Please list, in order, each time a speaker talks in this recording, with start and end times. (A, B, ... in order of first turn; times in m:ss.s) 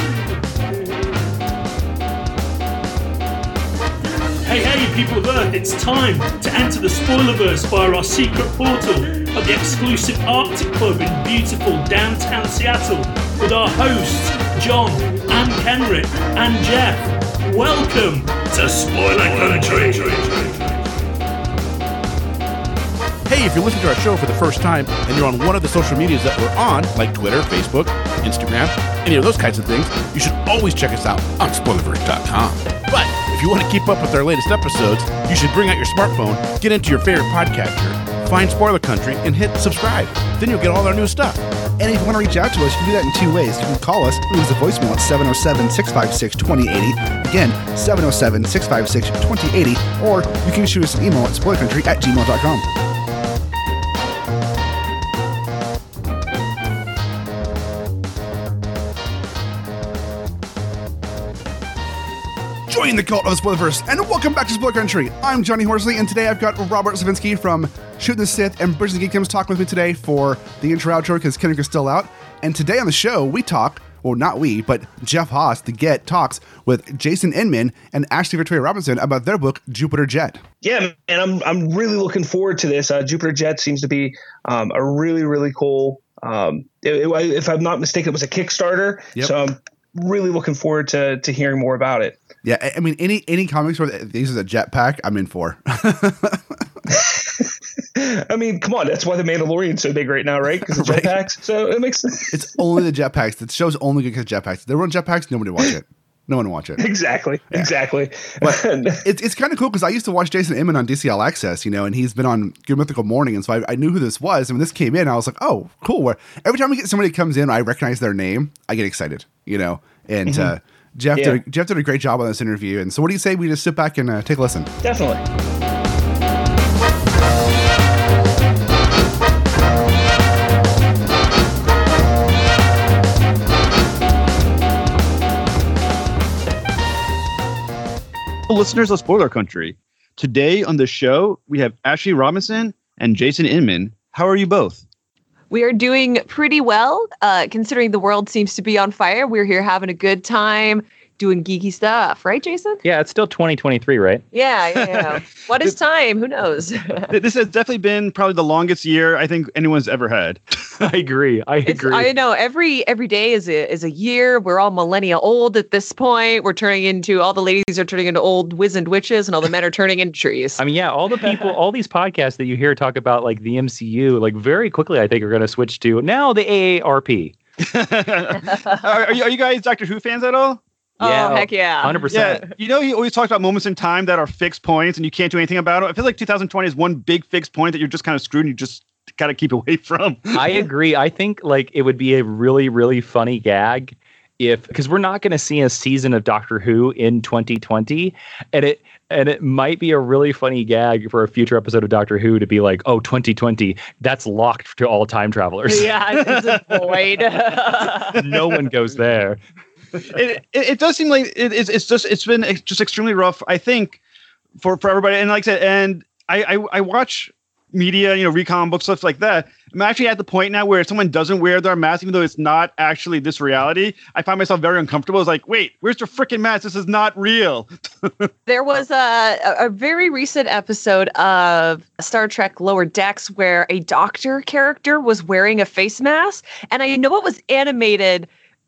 0:04.4-0:20.8 A
0:23.3-0:41.4 B
0:40.4-0:41.0 C
0:41.8-0:52.7 C
1:02.7-1:20.4 C
1:20.6-1:32.2 D
1:32.4-1:36.6 C
1:36.9-1:42.4 D
1:40.7-1:41.1 C
1:42.3-1:46.8 C
1:46.8-1:49.0 D
1:48.4-2:04.7 C
2:00.3-2:00.5 D
2:01.1-2:01.4 D
2:04.8-2:05.2 D
2:18.5-2:24.8 E
2:25.5-2:32.8 F
2:32.8-2:34.2 G
2:34.3-2:37.1 F
2:37.1-2:40.4 E
2:40.8-2:42.1 G
2:41.6-2:50.6 F
2:50.6-2:57.4 G
2:57.6-3:00.6 E
2:58.5-2:58.8 F
3:01.0-3:02.4 F
3:01.0-3:02.4 G
3:02.1-3:10.3 E
3:10.3-3:25.9 G
3:25.7-3:28.2 F
3:28.1-3:29.4 G
3:30.0-3:34.0 E
3:34.6-3:48.3 E
3:48.4-3:58.3 F